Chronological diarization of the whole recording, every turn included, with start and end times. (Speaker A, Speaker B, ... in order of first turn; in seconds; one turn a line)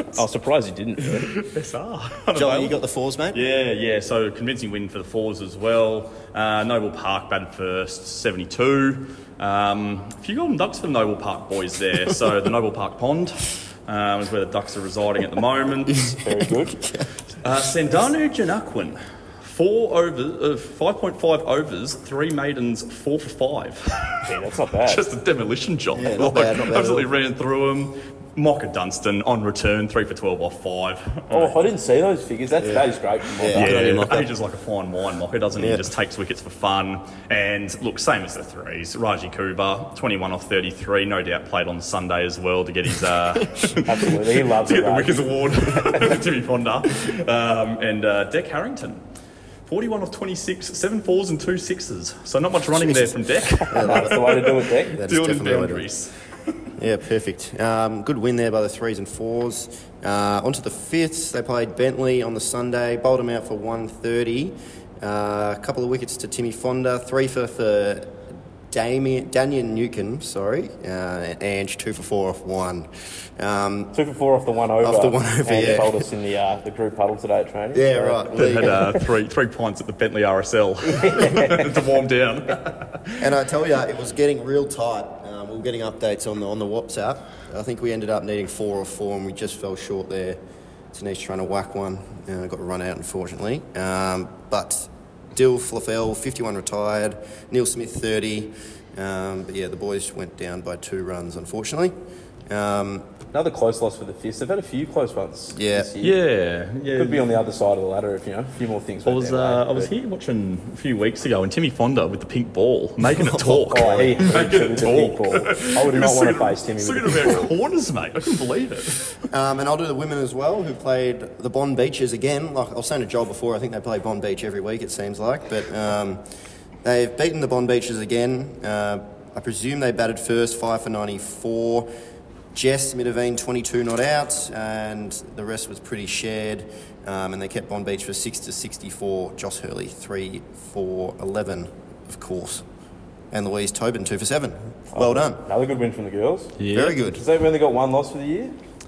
Speaker A: 0.1-1.4
Speaker B: 1.3-2.7
Speaker C: 2.3-3.4
Speaker B: 3.3-16.1
Speaker C: 15.9-16.2
Speaker A: 16.1-16.8
Speaker C: 16.7-17.1
Speaker B: 17.4-31.6
Speaker A: 24.2-25.1
Speaker C: 25.9-27.1
Speaker A: 31.3-33.8
Speaker C: 33.4-34.3
Speaker B: 33.5-49.0
Speaker C: 35.5-35.9
Speaker A: 43.8-46.0
Speaker B: 49.6-56.1
Speaker C: 52.7-55.9
Speaker A: 53.7-55.0
Speaker C: 56.8-73.9
Speaker A: 73.9-79.0
Speaker C: 74.8-76.0
Speaker C: 77.7-78.8
Speaker B: 78.3-83.3
Speaker A: 80.8-81.8
Speaker C: 83.2-90.4
Speaker C: 90.9-101.9
Speaker C: 102.5-103.1
Speaker A: 103.3-106.2
Speaker C: 105.5-105.9
Speaker B: 106.0-107.3
Speaker A: 106.9-109.9
Speaker B: 109.0-119.2
Speaker C: 113.1-114.4
Speaker A: 113.7-117.5
Speaker C: 119.3-126.2
Speaker C: 126.8-131.9
Speaker C: 132.5-142.6
Speaker C: 143.3-145.4
Speaker A: 144.9-148.5
Speaker B: 146.6-147.0
Speaker C: 146.7-147.2